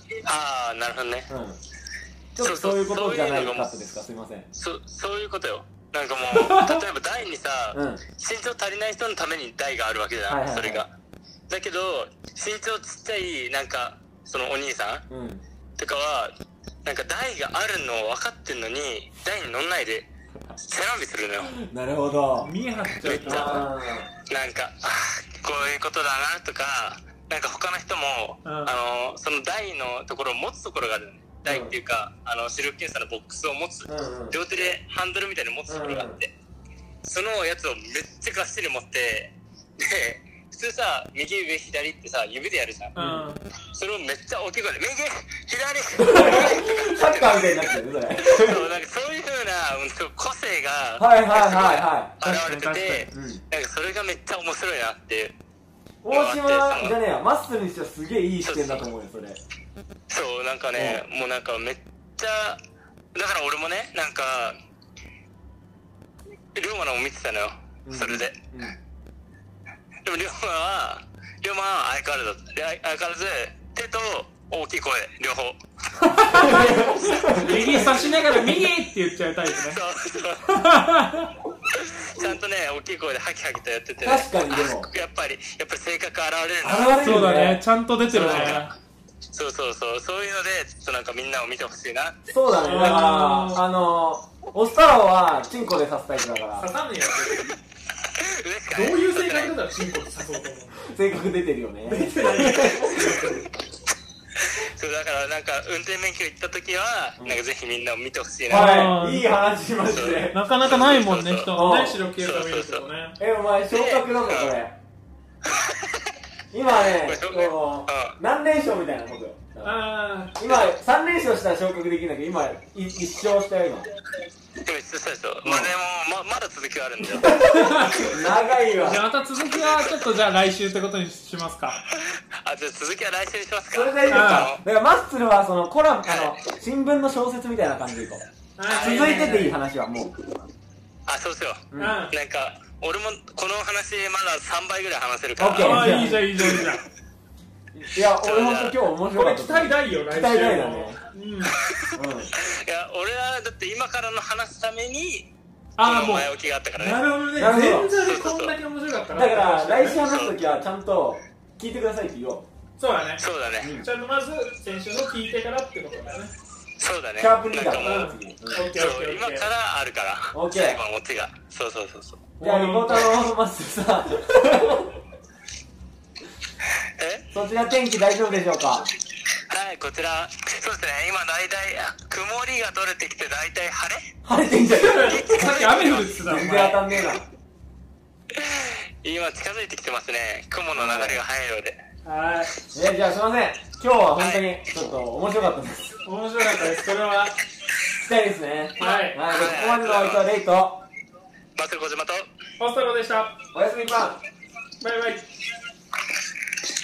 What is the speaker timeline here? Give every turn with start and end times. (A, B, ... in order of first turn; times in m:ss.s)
0:00.2-0:01.3 A
0:01.3-0:01.6 B
0:02.4-0:04.5 B
0:02.4-0:03.8 A
0:04.6-0:10.9 A
0:06.3-0:06.8 C
0:07.7-0:08.0 B
0:10.3-0:10.9 B
0:11.5-0:15.1 A
0:15.1-0:15.4 B
0:15.8-0:16.3 A
0:16.8-0:20.1 A
0:20.6-0:21.6 A
0:21.6-0:22.5 B
0:22.4-0:23.7 C
0:23.0-0:36.3 A
0:23.2-0:24.1 B
0:28.4-0:28.7 C
0:31.4-0:31.7 B
0:33.9-0:34.4 B
0:35.7-0:36.2 B
0:37.0-0:43.0 A
0:43.0-0:43.4 C
0:43.0-0:43.3 B
0:43.7-0:55.4 A
0:46.0-0:48.7 B
0:51.0-0:52.2 B
0:52.2-0:53.1 C
0:53.1-0:53.4 B
0:56.0-0:59.4 B
0:56.1-0:57.0 A
0:58.4-0:58.9 A
1:00.1-1:02.6 A
1:00.8-1:01.0 B
1:03.1-1:04.6 A
1:06.6-1:08.4 A
1:07.9-1:08.8 B
1:10.0-1:15.6 A
1:16.0-1:19.8 C
1:16.3-1:17.9 B
1:19.5-1:20.7 A
1:20.5-1:21.3 C
1:21.7-1:27.2 A
1:24.0-1:24.9 B
1:26.6-1:28.6 B
1:26.9-1:28.7 C
1:28.1-1:28.7 A
1:29.3-1:32.2 A
1:32.3-1:36.7 B
1:32.6-1:33.6 C
1:36.6-1:37.6 C
1:38.1-1:39.6 A
1:38.7-1:40.9 C
1:40.8-1:43.5 B
1:41.8-1:43.4 C
1:44.4-1:48.8 A
1:48.5-1:49.3 C
1:48.5-1:50.4 B
1:49.9-1:51.6 A
1:50.3-1:53.2 C
1:51.5-1:52.0 B
1:52.2-1:52.9 A
1:53.2-1:54.7 B
1:53.7-1:54.5 A
1:55.4-1:56.1 A
1:56.5-2:03.9 B
1:57.0-1:58.2 A
1:59.6-2:00.4 C
2:00.5-2:00.7 A
2:04.6-2:07.4 A
2:05.4-2:05.7 B
2:07.1-2:09.0 B
2:07.4-2:08.2 C
2:08.8-2:11.8 C
2:11.9-2:14.6 A
2:13.7-2:18.2 B
2:14.1-2:14.5 C
2:16.1-2:16.3 A
2:18.6-2:19.6 C
2:18.7-2:19.4 A
2:18.8-2:20.2 B
2:21.1-2:26.7 A
2:21.7-2:22.0 B
2:21.8-2:22.2 C
2:25.4-2:26.6 B
2:25.6-2:26.8 C
2:27.8-2:31.0 B
2:28.2-2:28.8 A
2:29.1-2:31.6 C
2:31.5-2:35.3 A
2:31.9-2:32.3 B
2:35.8-2:40.0 C
2:35.8-2:37.1 A
2:37.4-2:37.9 B
2:37.9-2:38.6 A
2:39.2-2:42.5 B
2:40.0-2:40.3 A
2:42.8-2:46.3 C
2:43.2-2:43.8 A
2:43.6-2:43.9 B
2:46.8-2:48.2 A
2:47.2-2:48.7 B
2:47.8-2:49.5 C
2:48.7-2:52.3 A
2:50.3-2:50.8 B
2:52.4-2:53.2 C
2:52.4-2:55.0 B
2:57.0-2:57.3 A
2:57.3-2:58.9 B
2:59.5-3:04.1 A
3:04.2-3:07.3 B
3:04.8-3:06.8 C
3:04.9-3:06.2 A
3:08.3-3:11.8 A
3:10.8-3:11.2 B
3:12.0-3:12.5 C
3:12.7-3:16.0 B
3:14.2-3:14.5 A
3:16.0-3:17.4 C
3:18.0-3:20.8 B
3:18.8-3:19.2 C
3:18.8-3:20.3 A
3:21.6-3:22.3 A
3:22.6-3:23.3 C
3:23.5-3:24.2 B
3:24.8-3:25.2 C